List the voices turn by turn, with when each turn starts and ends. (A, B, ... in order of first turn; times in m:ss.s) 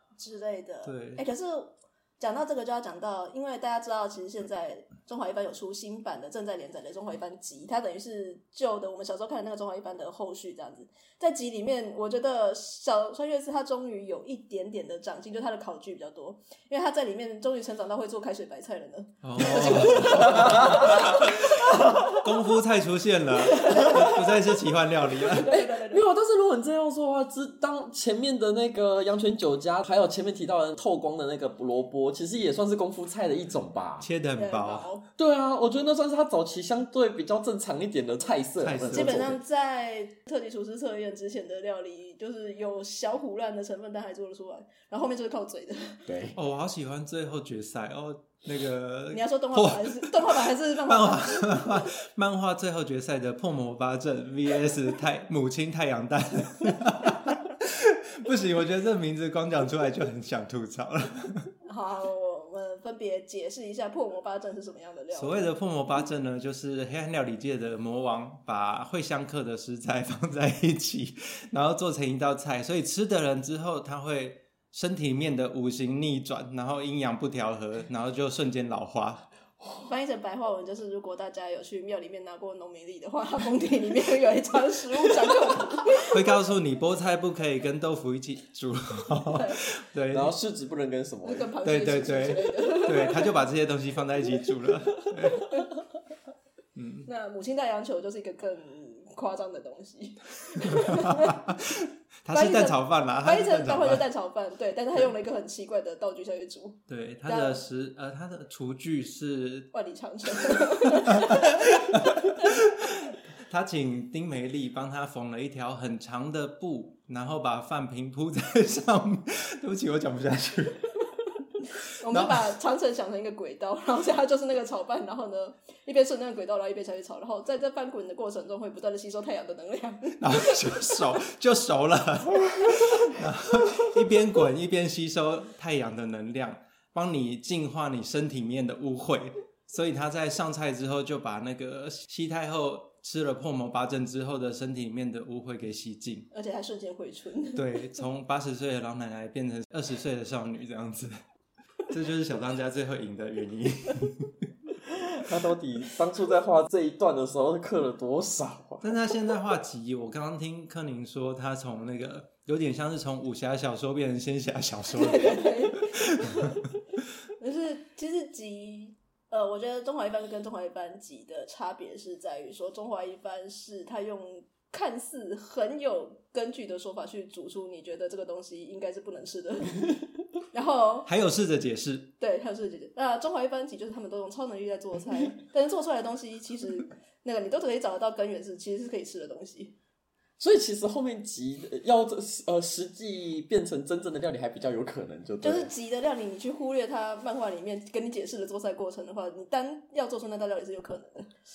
0:00.2-0:21.8 A
0:00.8-0:01.2 B
0:19.2-0:25.5 B
0:20.0-0:21.2 C
0:23.4-0:24.2 A
0:23.7-0:24.1 C
0:25.1-0:26.0 A
0:25.4-0:34.1 C
0:34.0-0:34.9 B
0:34.4-0:35.0 A
0:35.2-0:39.4 C
0:38.6-0:39.3 B
0:38.9-0:46.0 A
0:46.1-0:46.4 C
0:46.3-1:01.5 B
0:49.1-0:51.8 A
1:01.6-1:05.5 A
1:05.1-1:19.3 B
1:19.8-1:26.2 A
1:26.0-1:30.3 B
1:29.3-1:29.6 A
1:30.1-1:31.5 C
1:31.2-1:33.3 A
1:31.6-1:35.6 B
1:36.7-1:37.1 B
1:37.0-1:41.6 A
1:40.6-1:44.0 B
1:42.3-1:47.6 A
1:46.9-1:49.7 B
1:49.7-1:52.6 A
1:50.4-2:00.9 B
2:02.0-2:11.0 A
2:02.1-2:02.5 B
2:10.2-2:26.3 B
2:26.3-2:27.8 A
2:27.5-2:31.1 B
2:31.9-2:34.5 B
2:34.9-2:39.0 C
2:38.8-2:46.6 B
2:44.9-2:46.6 A
2:47.4-3:00.0 A
3:00.5-3:01.1 A
3:01.0-3:02.1 B
3:02.2-3:09.7 A
3:10.4-3:15.7 C
3:15.4-3:21.3 A